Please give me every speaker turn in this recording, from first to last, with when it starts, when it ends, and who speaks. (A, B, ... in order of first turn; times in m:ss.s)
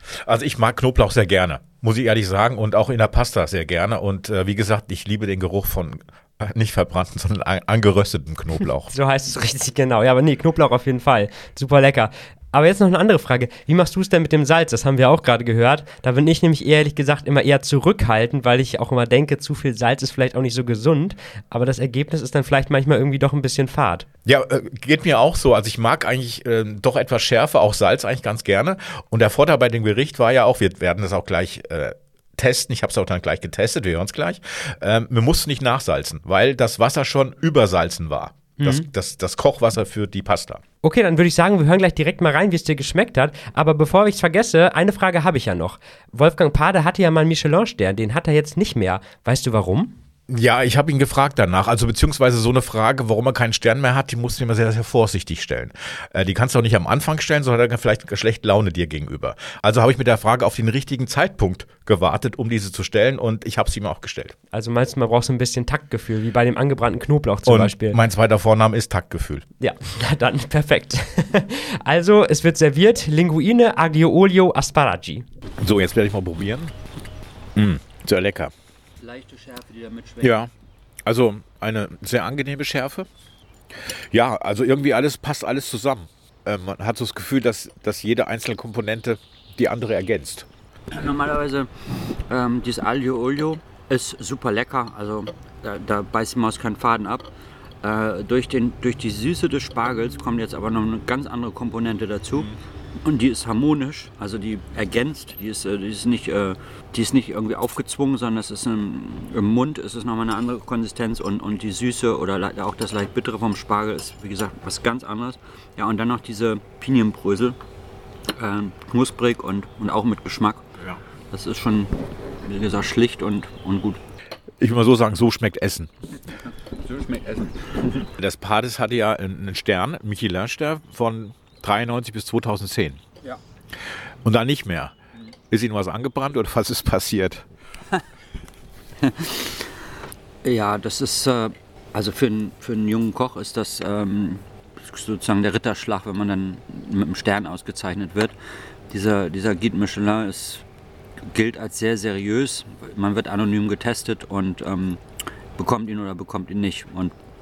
0:00.2-0:08.9 A
0:08.9-0:24.0 B
0:24.2-0:40.6 A
0:38.6-0:38.9 B
0:40.8-0:49.9 B
0:50.3-1:04.3 A
1:04.5-1:08.0 B
1:07.5-1:09.4 A
1:09.6-1:15.2 B
1:15.6-1:16.7 A
1:17.5-1:18.5 A
1:19.0-1:20.4 C
1:20.2-1:20.5 A
1:21.0-1:23.1 A
1:24.1-1:30.5 A
1:30.9-1:31.7 C
1:32.3-1:37.3 C
1:37.8-1:57.6 C
1:58.4-2:00.6 C
2:01.3-2:04.0 C
2:04.6-2:05.9 A
2:06.8-2:08.0 C
2:08.1-2:13.0 A
2:14.2-2:14.9 A
2:15.5-2:17.4 A
2:19.0-2:19.7 C
2:20.4-2:28.3 C
2:28.9-2:30.6 C
2:31.3-2:35.0 C
2:35.6-2:37.1 C